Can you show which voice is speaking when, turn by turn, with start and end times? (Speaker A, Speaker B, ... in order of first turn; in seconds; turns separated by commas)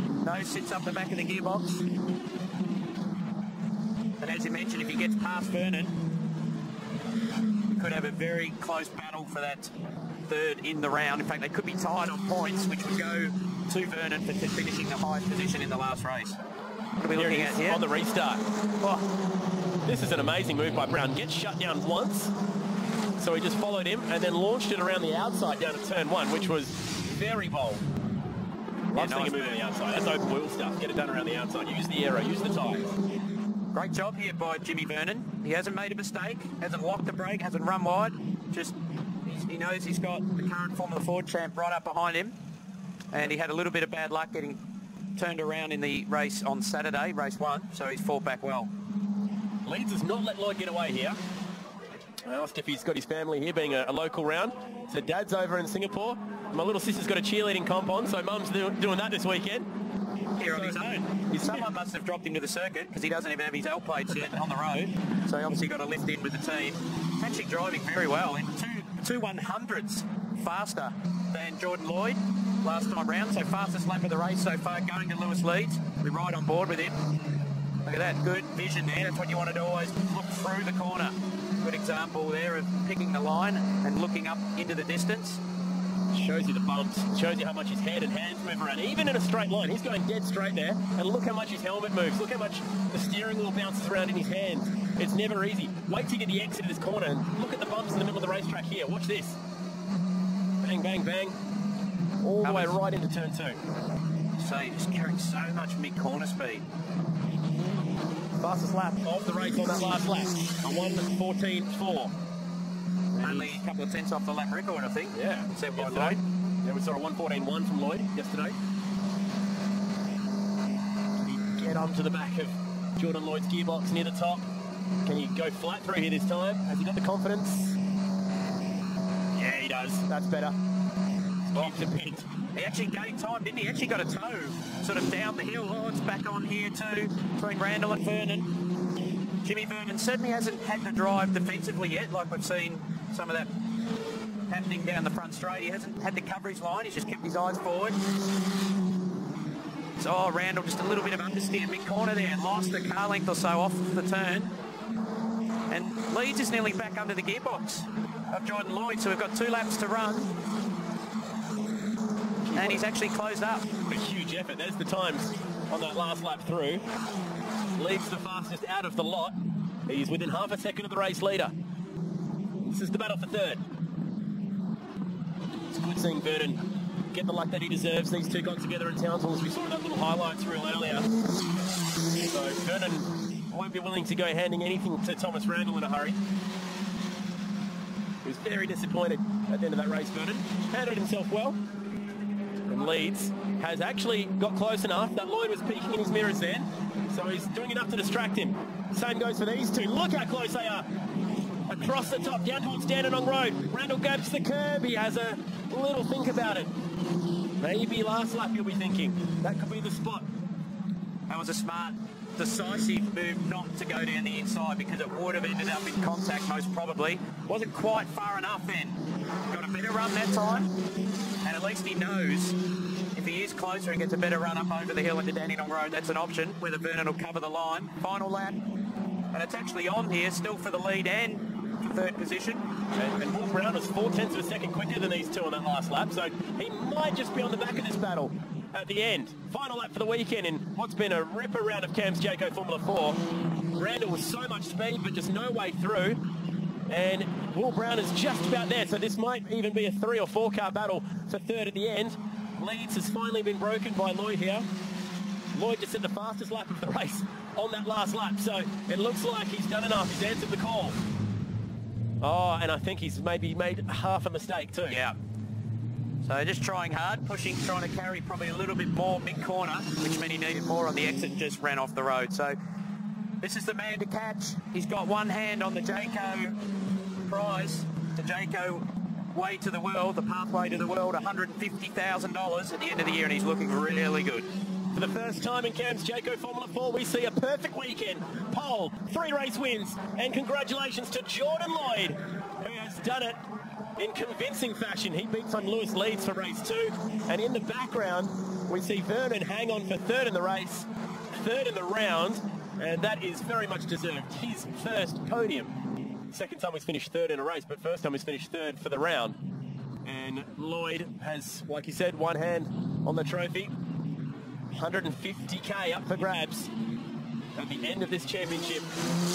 Speaker A: 0.2-1.8, Speaker A: 4.2-6.0, Speaker A: 7.7-9.7, Speaker A: 10.3-16.4, Speaker A: 17.0-17.8, Speaker B: 17.1-18.4, Speaker B: 19.9-22.3, Speaker B: 23.2-27.9, Speaker B: 28.9-32.9, Speaker A: 28.9-29.6, Speaker A: 33.7-42.3, Speaker A: 43.1-44.6, Speaker A: 45.1-48.7, Speaker B: 49.6-51.2, Speaker B: 52.2-59.6, Speaker A: 60.4-76.9, Speaker B: 60.4-60.8, Speaker B: 61.3-61.6, Speaker A: 77.8-85.4, Speaker B: 86.1-99.4, Speaker B: 100.6-101.3, Speaker B: 102.2-103.6, Speaker A: 102.4-102.8, Speaker A: 104.4-106.7, Speaker B: 108.4-112.1, Speaker B: 113.1-113.6, Speaker A: 113.2-116.2, Speaker B: 115.1-118.5, Speaker B: 121.2-124.5, Speaker B: 125.0-127.8, Speaker B: 129.3-130.5, Speaker B: 131.5-132.3, Speaker A: 132.5-138.5, Speaker A: 139.4-143.5, Speaker A: 144.5-148.0, Speaker A: 150.0-154.5, Speaker A: 155.7-160.3, Speaker B: 162.4-162.8, Speaker A: 162.5-163.7, Speaker B: 163.9-166.8, Speaker B: 167.8-169.3, Speaker B: 169.9-171.5, Speaker B: 172.7-173.6, Speaker B: 175.7-176.6, Speaker B: 177.1-181.1, Speaker B: 182.3-186.2, Speaker B: 188.2-191.6, Speaker B: 192.7-200.8, Speaker B: 201.7-206.7, Speaker B: 207.6-210.2, Speaker A: 211.3-219.0, Speaker A: 219.5-220.7, Speaker A: 221.4-222.6, Speaker A: 223.1-228.6, Speaker A: 229.3-232.6, Speaker B: 232.9-243.2, Speaker B: 243.8-246.2, Speaker B: 246.9-254.7, Speaker B: 255.5-261.0, Speaker B: 262.2-265.0, Speaker A: 264.9-265.1, Speaker A: 266.2-272.6, Speaker A: 273.4-276.6, Speaker A: 277.2-284.5, Speaker B: 284.9-293.4, Speaker B: 294.0-305.7, Speaker B: 306.3-309.4, Speaker B: 310.0-313.7, Speaker B: 314.7-316.7, Speaker B: 317.6-318.9